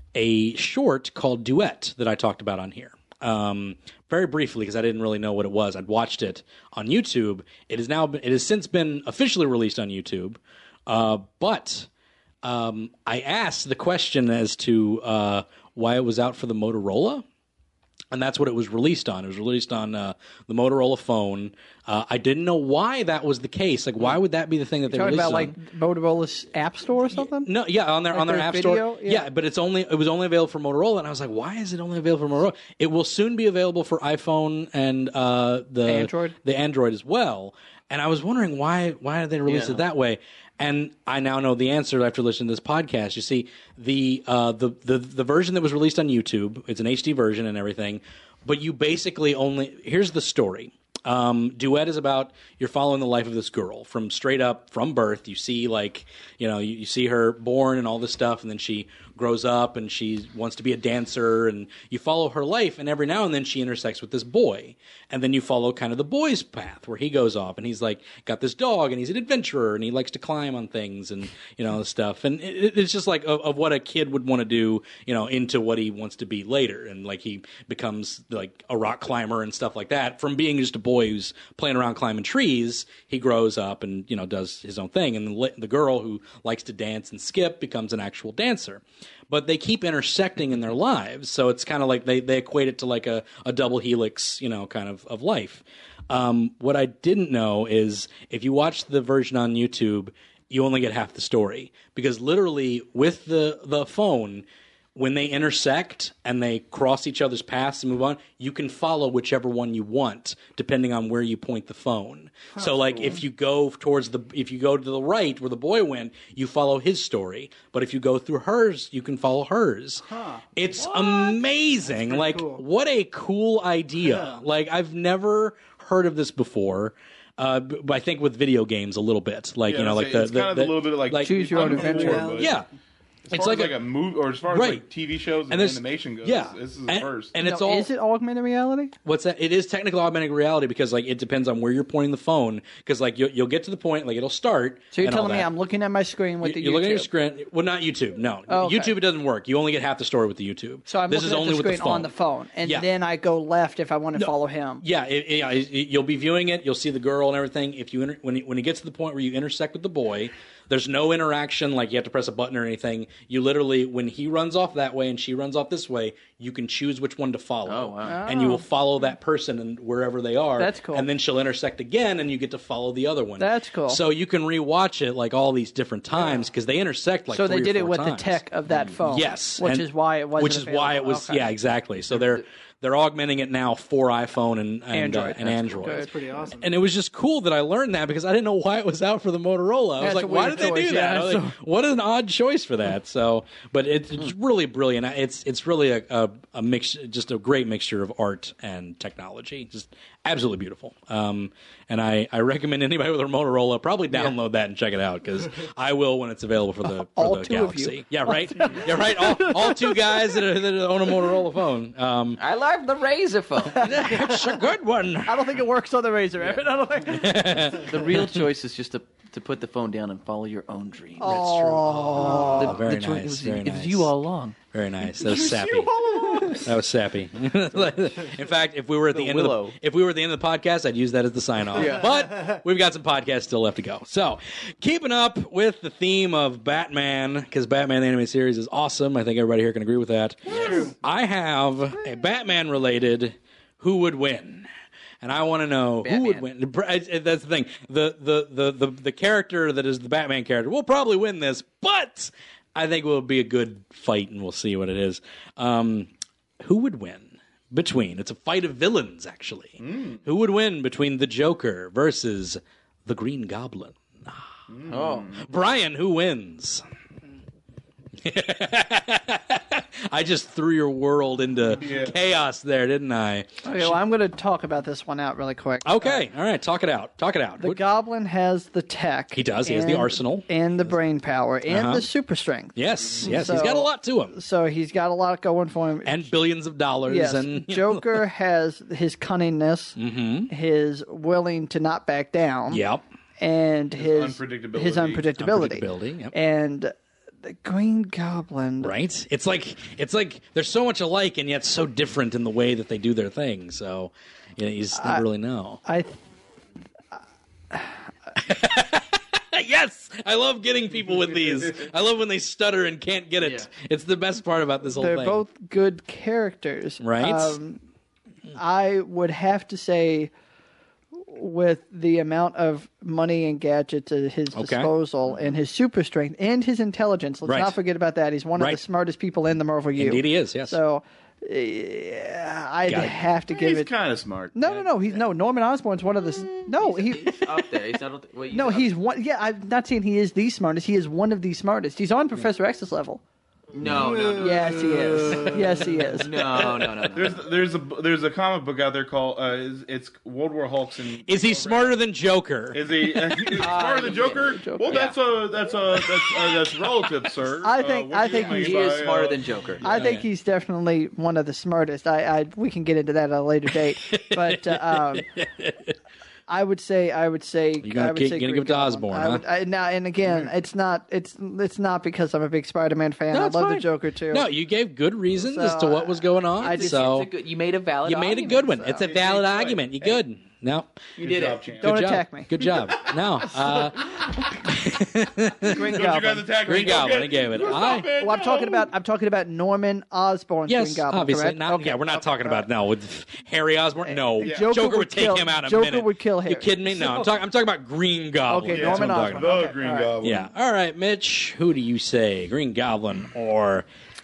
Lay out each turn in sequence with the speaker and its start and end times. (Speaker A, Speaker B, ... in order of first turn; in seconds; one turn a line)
Speaker A: 0.1-11.9
Speaker A: 12.4-17.2
Speaker A: 18.1-25.6
Speaker B: 24.9-27.5
Speaker A: 27.2-131.4
Speaker B: 28.1-29.3
Speaker B: 35.9-36.4
Speaker C: 39.5-39.8
Speaker D: 112.6-113.1
Speaker D: 120.1-121.4
Speaker D: 121.9-122.6
Speaker D: 124.0-124.3
Speaker E: 129.7-132.6
Speaker B: 131.2-132.3
Speaker D: 131.6-132.5
Speaker A: 132.3-132.7
Speaker E: 133.3-137.3
Speaker A: 133.3-133.8
Speaker A: 134.5-134.8
Speaker A: 135.5-137.9
Speaker B: 137.4-138.9
Speaker A: 139.1-145.5
Speaker B: 144.9-147.1
Speaker A: 146.4-152.1
Speaker B: 148.5-148.9
Speaker B: 150.9-154.8
Speaker A: 154.2-178.4
Speaker C: 167.7-168.2
Speaker B: 168.1-168.6
Speaker B: 170.6-171.1
Speaker B: 173.4-174.0
Speaker B: 177.3-181.5
Speaker A: 179.0-186.1
Speaker B: 184.9-186.1
Speaker D: 185.9-186.7
Speaker A: 186.6-212.4
Speaker B: 190.0-191.5
Speaker B: 207.1-210.2
Speaker C: 212.4-213.9
Speaker A: 213.7-215.5
Speaker B: 213.8-214.4
Speaker B: 215.2-217.6
Speaker A: 217.1-218.4
Speaker C: 217.8-221.5
Speaker B: 221.2-222.8
Speaker A: 221.2-224.1
Speaker C: 222.2-224.6
Speaker A: 224.7-244.7
Speaker E: 225.2-226.4
Speaker D: 226.1-226.5
Speaker C: 229.1-229.8
Speaker C: 231.7-232.1
Speaker C: 240.5-240.9
Speaker A: 245.2-256.1
Speaker C: 246.0-246.4
Speaker A: 256.6-264.4
Speaker E: 259.8-260.2
Speaker E: 264.7-265.5
Speaker C: 264.9-265.4
Speaker A: 265.4-266.8
Speaker A: 268.2-274.0
Speaker E: 271.8-272.2
Speaker B: 273.6-276.3
Speaker A: 275.8-277.8
Speaker B: 277.6-286.3
Speaker A: 279.3-280.5
Speaker A: 281.7-282.1
Speaker A: 282.8-284.3
Speaker A: 286.1-288.2
Speaker B: 287.1-290.0
Speaker A: 290.0-290.5
Speaker B: 290.5-292.8
Speaker A: 292.7-293.0
Speaker B: 293.4-298.9
Speaker E: 294.0-295.3
Speaker A: 295.4-296.3
Speaker A: 298.8-305.8
Speaker B: 304.9-305.2
Speaker B: 305.9-306.2
Speaker A: 308.4-315.4
Speaker C: 313.4-313.7
Speaker B: 315.0-317.8
Speaker A: 317.0-317.6
Speaker B: 318.6-320.3
Speaker B: 321.3-333.9
Speaker A: 324.6-324.9
Speaker A: 327.5-327.8
Speaker A: 330.0-330.8
Speaker A: 332.9-333.2
Speaker E: 333.5-334.6
Speaker B: 334.5-337.5
Speaker C: 336.8-338.9
Speaker B: 338.5-343.2
Speaker C: 343.7-345.6
Speaker E: 343.8-344.1
Speaker D: 343.9-346.1
Speaker B: 344.4-346.4
Speaker C: 346.1-347.4
Speaker E: 347.1-352.0
Speaker A: 351.3-353.6
Speaker E: 352.7-359.8
Speaker B: 353.6-354.9
Speaker C: 353.6-355.2
Speaker A: 355.9-357.2
Speaker B: 357.6-358.9
Speaker C: 358.3-359.9
Speaker B: 359.8-365.3
Speaker A: 359.9-360.2
Speaker A: 363.7-365.9
Speaker B: 366.5-374.5
Speaker A: 367.8-369.4
Speaker A: 373.3-377.3
Speaker B: 375.4-377.2
Speaker C: 376.6-379.1
Speaker A: 378.0-381.0
Speaker E: 378.9-380.2
Speaker E: 381.2-382.0
Speaker C: 381.2-381.6
Speaker A: 381.8-388.1
Speaker B: 381.8-382.5
Speaker E: 382.6-383.1
Speaker B: 385.6-387.2
Speaker E: 385.7-388.9
Speaker B: 388.2-392.6
Speaker A: 390.7-399.6
Speaker B: 394.1-397.2
Speaker E: 394.4-394.7
Speaker B: 398.5-400.1
Speaker E: 398.7-400.5
Speaker A: 400.2-403.9